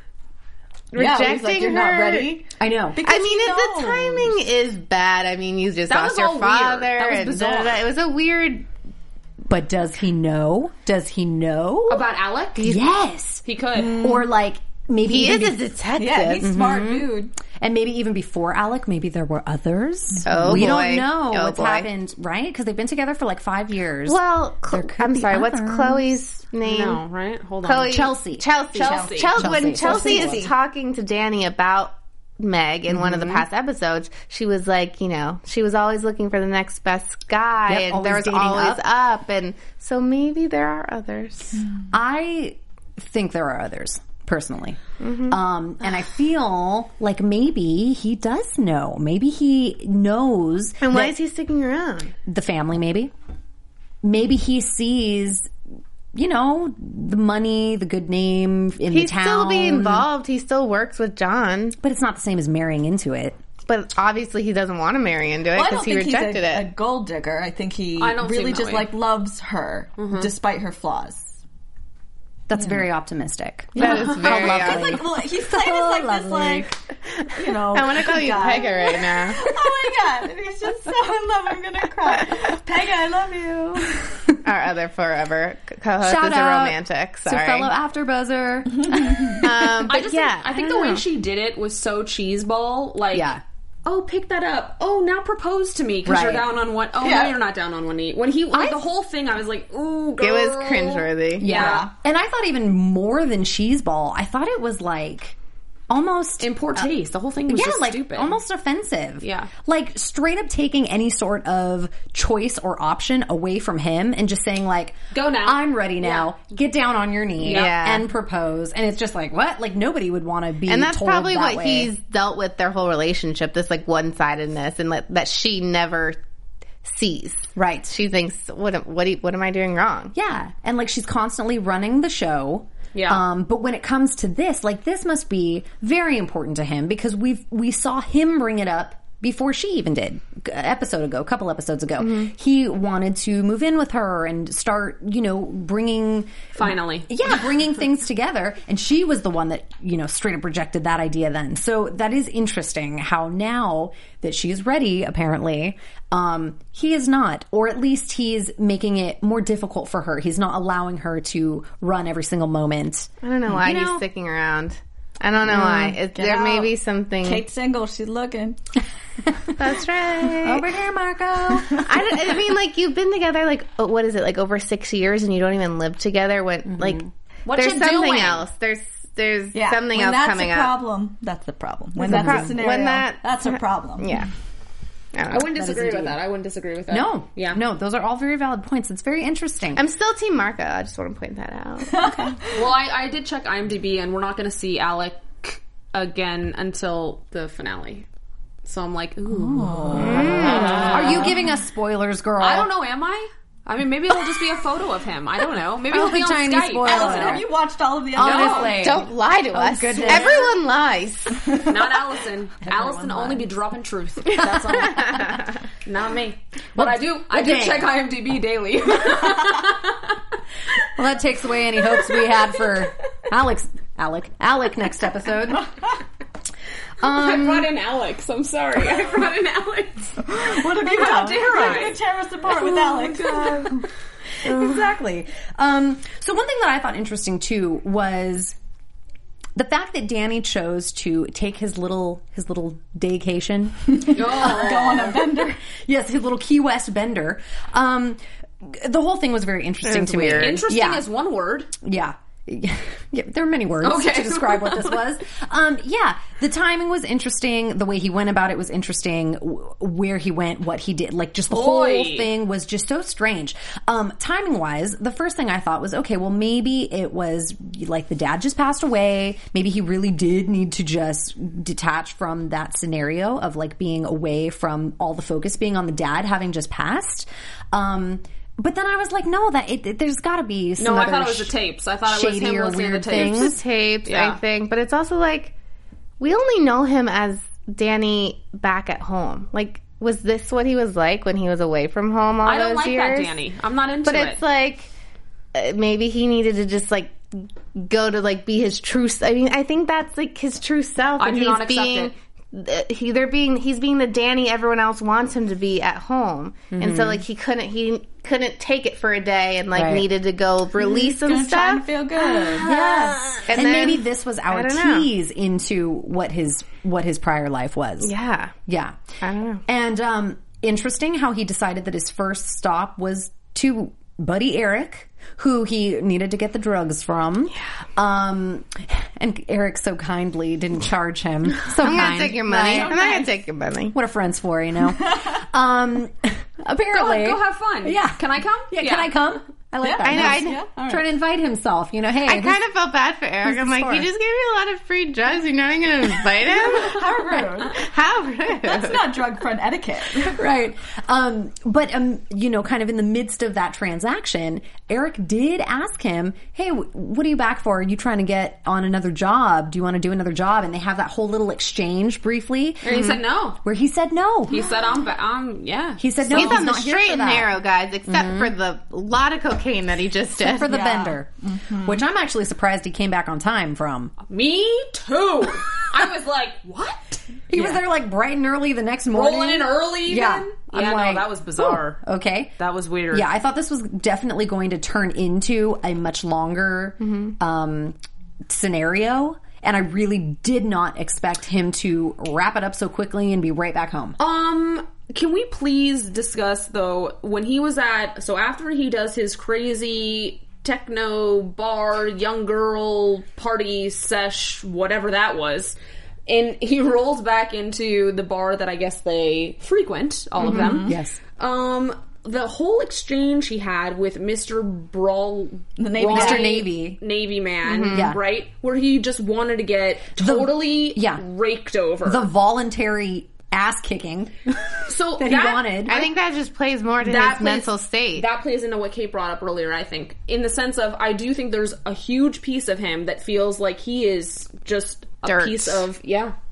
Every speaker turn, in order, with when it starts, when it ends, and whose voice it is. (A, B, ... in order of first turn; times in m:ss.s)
0:00.9-0:02.3 A
0:00.9-0:04.4 B
0:02.6-0:03.0 C
0:03.0-0:08.7 A
0:05.9-0:07.8 D
0:09.5-0:12.0 C
0:11.9-0:12.7 D
0:12.6-0:15.7 C
0:13.4-0:14.1 D
0:13.8-0:14.2 B
0:15.0-0:16.9 A
0:16.0-0:17.3 B
0:16.4-0:17.0 C
0:17.6-0:24.2 C
0:20.2-0:20.6 B
0:20.2-0:21.9 A
0:24.0-0:27.0 A
0:24.7-0:26.1 C
0:26.6-0:28.1 D
0:27.6-0:41.6 A
0:27.9-0:30.5 C
0:28.7-0:30.5 D
0:32.9-0:33.4 C
0:37.7-0:38.8 C
0:41.9-0:51.1 C
0:45.0-0:45.4 A
0:50.8-0:52.1 A
0:52.3-0:53.1 C
0:54.0-0:55.5 C
0:56.1-1:00.1 C
0:58.9-1:01.8 A
1:01.8-1:03.4 C
1:03.7-1:06.7 A
1:05.5-1:11.4 B
1:08.0-1:08.9 D
1:10.0-1:10.3 D
1:12.5-1:16.7 C
1:13.7-1:15.0 A
1:13.8-1:16.7 B
1:17.3-1:24.3 B
1:17.7-1:19.5 A
1:24.4-1:27.7 A
1:26.0-1:29.9 C
1:28.8-1:29.4 B
1:29.4-1:31.0 A
1:29.9-1:41.9 D
1:33.1-1:33.4 C
1:36.0-1:36.5 C
1:37.0-1:37.4 B
1:38.5-1:38.8 C
1:40.2-1:41.5 A
1:41.4-1:45.4 C
1:41.4-1:41.9 B
1:45.9-1:46.9 C
1:46.4-1:48.3 D
1:47.5-2:01.9 C
1:49.2-1:49.5 D
1:55.1-1:56.3 D
1:57.4-1:57.7 D
1:57.4-1:58.1 A
2:00.7-2:06.2 A
2:06.8-2:10.1 A
2:07.6-2:07.9 C
2:10.1-2:44.0 C
2:12.9-2:13.2 D
2:22.0-2:22.3 A
2:26.5-2:27.2 D
2:43.2-2:47.4 A
2:45.5-2:45.9 C
2:45.6-2:48.6 B
2:49.6-2:50.6 A
2:50.4-2:52.3 C
2:51.6-2:57.0 A
2:56.7-2:57.1 C
2:57.4-2:58.4 D
2:57.5-3:00.8 A
2:59.5-3:04.1 B
3:02.0-3:04.3 A
3:02.0-3:02.6 C
3:05.1-3:05.5 A
3:05.3-3:07.6 D
3:05.5-3:06.2 C
3:06.9-3:09.8 C
3:09.8-3:12.3 A
3:11.9-3:12.5 B
3:12.5-3:18.0 D
3:18.6-3:21.4 D
3:19.4-3:20.9 B
3:19.9-3:22.7 C
3:20.0-3:21.1 A
3:22.4-3:27.4 D
3:25.9-3:27.5 C
3:26.8-3:28.8 B
3:28.1-3:30.5 C
3:28.2-3:28.8 D
3:28.7-3:31.5 A
3:31.6-3:35.3 D
3:32.6-3:33.5 C
3:34.4-3:35.0 C
3:34.8-3:35.4 A
3:35.8-3:40.2 D
3:36.7-3:37.9 C
3:41.0-3:45.7 C
3:47.0-3:47.7 C
3:47.0-3:52.0 D
3:50.2-3:53.8 B
3:52.5-3:53.8 D
3:54.4-3:58.6 C
3:54.4-3:54.8 D
3:59.6-4:05.2 C
4:04.0-4:05.6 B
4:04.1-4:05.2 D
4:05.8-4:11.0 C
4:09.8-4:10.6 A
4:10.4-4:11.7 D
4:11.8-4:43.6 C
4:13.8-4:15.0 D
4:21.5-4:22.3 D
4:40.8-4:44.4 D
4:43.1-4:45.5 A
4:46.2-4:53.3 A
4:52.4-4:54.4 D
4:54.0-4:54.9 A
4:55.5-5:11.8 A
5:01.2-5:02.1 D
5:06.8-5:07.2 C
5:09.7-5:10.1 C
5:10.8-5:12.7 B
5:12.5-5:13.5 D
5:12.6-5:18.1 C
5:13.5-5:15.1 A
5:18.0-5:18.5 A
5:18.7-5:19.0 C
5:19.2-5:19.6 A
5:19.6-5:32.9 C
5:31.8-5:34.0 A
5:32.5-5:33.3 D
5:33.9-5:42.6 C
5:36.9-5:39.2 D
5:39.8-5:40.8 B
5:40.0-5:40.6 A
5:42.2-5:49.1 A
5:43.4-5:44.1 C
5:46.4-5:47.9 B
5:48.6-5:50.4 B
5:50.3-6:04.7 C
6:02.8-6:03.6 D
6:04.5-6:06.6 D
6:06.0-6:07.5 C
6:06.3-6:10.8 A
6:08.1-6:08.5 C
6:10.4-6:14.1 C
6:10.6-6:12.0 B
6:14.3-6:17.7 D
6:17.5-6:22.5 C
6:19.1-6:22.0 D
6:22.6-6:23.3 D
6:23.1-6:28.0 C
6:27.0-6:27.3 A
6:28.5-6:34.2 C
6:34.2-6:45.8 D
6:46.3-7:02.3 D
6:50.4-6:50.7 A
6:50.4-6:51.0 B
6:50.5-6:51.2 C
6:55.8-6:56.6 B
6:56.0-6:57.0 C
6:57.6-6:58.1 A
6:57.9-6:58.2 C
7:00.2-7:01.2 C
7:02.0-7:06.0 C
7:04.8-7:06.1 D
7:05.9-7:08.3 A
7:07.0-7:16.3 D
7:15.2-7:15.8 A